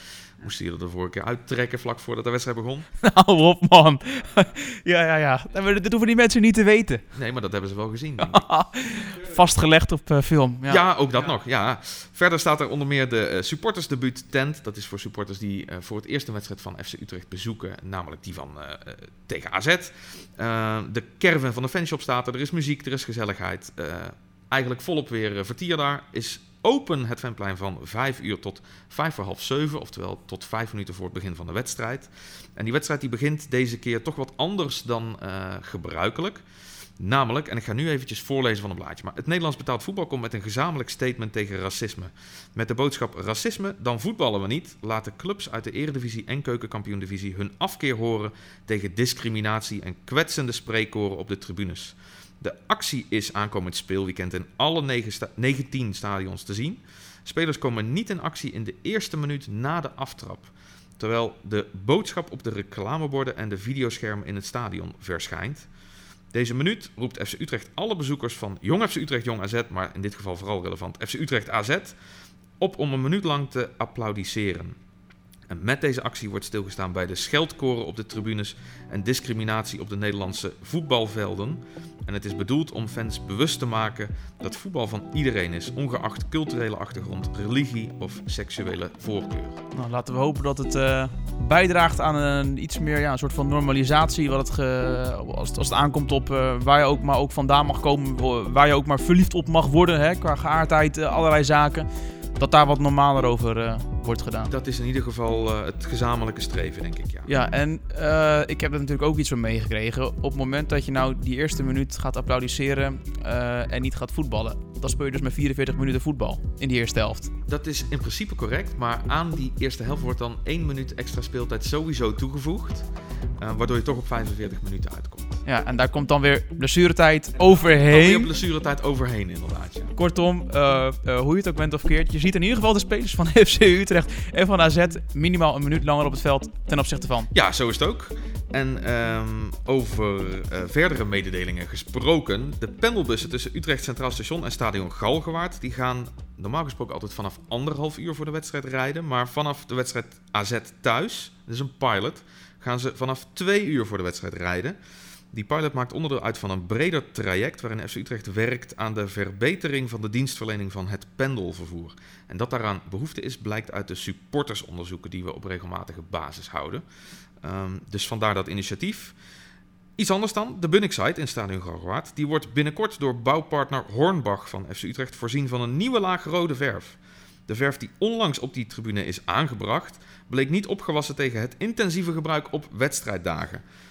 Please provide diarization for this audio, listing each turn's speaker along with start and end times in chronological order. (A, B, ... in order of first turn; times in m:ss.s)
0:00.4-0:02.9 A
0:03.0-0:07.0 B
0:07.1-0:08.4 A
0:08.2-0:10.8 B
0:10.7-0:36.4 A
0:37.0-1:05.7 A
1:06.3-1:11.9 A
1:12.6-1:14.8 A
1:15.5-1:29.6 A
1:29.7-1:41.8 B
1:42.4-1:44.5 B
1:44.5-1:47.3 A
1:47.3-1:57.3 B
1:57.5-2:02.9 A
2:03.4-2:05.4 A
2:05.4-2:08.3 B
2:07.9-2:09.9 A
2:09.9-2:17.3 B
2:17.3-2:34.8 A
2:35.3-2:46.8 A
2:47.4-2:49.1 A
2:50.0-3:03.6 A